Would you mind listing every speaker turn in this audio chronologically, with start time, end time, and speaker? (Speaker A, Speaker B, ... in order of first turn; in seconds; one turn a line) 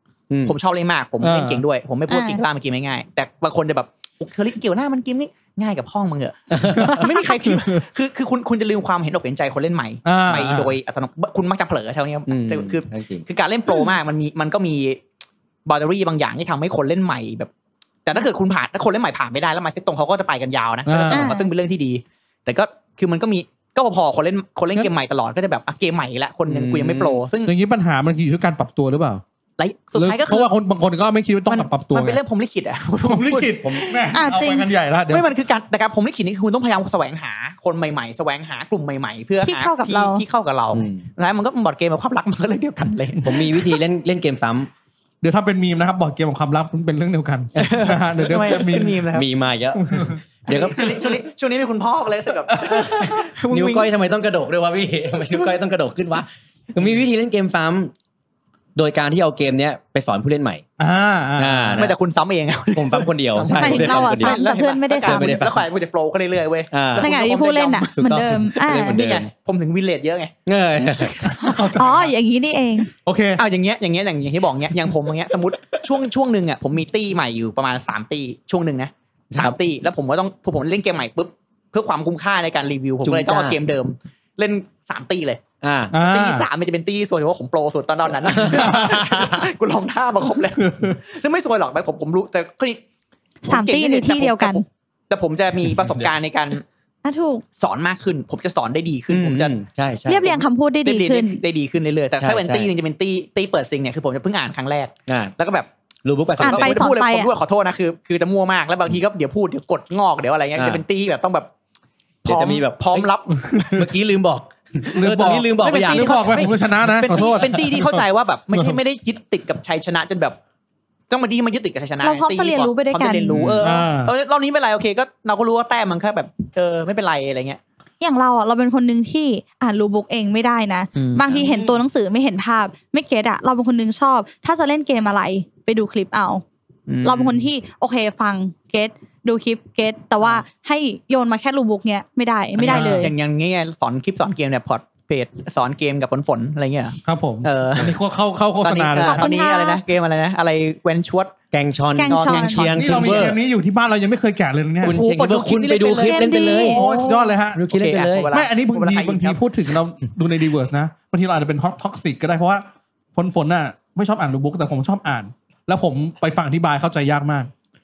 Speaker A: 0.3-0.5
Speaker B: 0.4-15.0
Speaker C: 1.2-1.6
Speaker D: 2.1-2.4
Speaker A: 6.5-7.0
Speaker C: 6.8-7.8
Speaker C: 10.0-10.7
Speaker A: 12.3-13.2
Speaker D: 13.7-13.9
Speaker B: 15.7-17.5
Speaker B: 18.0-27.5
Speaker C: 20.9-21.3
Speaker D: 21.1-21.5
Speaker A: 26.5-27.2
Speaker C: 27.4-29.2
Speaker B: 29.6-30.5
Speaker C: 30.0-32.2
Speaker B: 31.5-34.2
Speaker C: 33.0-35.3
Speaker D: 34.1-34.7
Speaker B: 35.1-43.3
Speaker D: 39.4-40.2
Speaker A: 40.7-41.0
Speaker A: 43.2-44.7
Speaker C: 45.2-49.0
Speaker B: 47.6-49.2
Speaker A: 49.1-51.1
Speaker C: 49.8-50.2
Speaker B: 50.5-53.9
Speaker C: 52.6-52.8
Speaker A: 52.6-57.9
Speaker A: 58.8-60.6
Speaker C: 60.8-61.9
Speaker A: 61.4-62.0
Speaker B: 61.8-68.0
Speaker A: 62.7-64.4
Speaker D: 63.5-65.4
Speaker A: 65.0-65.6
Speaker A: 66.7-67.1
Speaker D: 67.0-69.0
Speaker A: 68.0-69.3
Speaker B: 68.7-70.3
Speaker A: 70.5-71.4
Speaker B: 71.2-71.7
Speaker C: 71.2-72.1
Speaker D: 71.5-72.9
Speaker C: 73.0-73.4
Speaker B: 73.4-85.4
Speaker A: 83.0-83.6
Speaker A: 85.6-85.9
Speaker C: 85.9-86.5
Speaker B: 86.0-92.8
Speaker A: 88.2-89.4
Speaker C: 90.6-91.0
Speaker D: 93.4-94.6
Speaker B: 93.5-96.6
Speaker D: 97.0-97.4
Speaker B: 97.6-99.5
Speaker A: 99.1-100.4
Speaker D: 100.1-101.4
Speaker B: 100.8-105.7
Speaker A: 102.2-102.7
Speaker A: 105.1-105.3
Speaker A: 106.0-106.9
Speaker B: 106.4-111.5
Speaker D: 106.4-107.3
Speaker A: 110.5-110.8
Speaker A: 112.2-113.1
Speaker B: 112.2-113.7
Speaker C: 113.5-113.8
Speaker A: 113.7-116.4
Speaker C: 114.9-118.8
Speaker B: 115.6-120.4
Speaker B: 121.1-127.6
Speaker D: 122.0-123.4
Speaker C: 123.3-124.1
Speaker A: 123.3-123.6
Speaker D: 128.0-136.4
Speaker B: 130.9-131.3
Speaker C: 131.3-131.7
Speaker B: 136.9-137.4
Speaker D: 137.0-143.1
Speaker B: 142.6-147.9
Speaker C: 142.7-143.1
Speaker C: 147.0-149.3
Speaker B: 148.6-151.3
Speaker D: 149.0-149.8
Speaker A: 151.5-153.4
Speaker D: 151.9-152.7
Speaker B: 152.1-153.3
Speaker C: 152.7-155.0
Speaker A: 154.8-156.8
Speaker B: 154.8-156.8
Speaker D: 156.0-157.3
Speaker C: 156.6-157.6
Speaker A: 157.5-158.3
Speaker B: 157.7-159.4
Speaker C: 158.3-167.5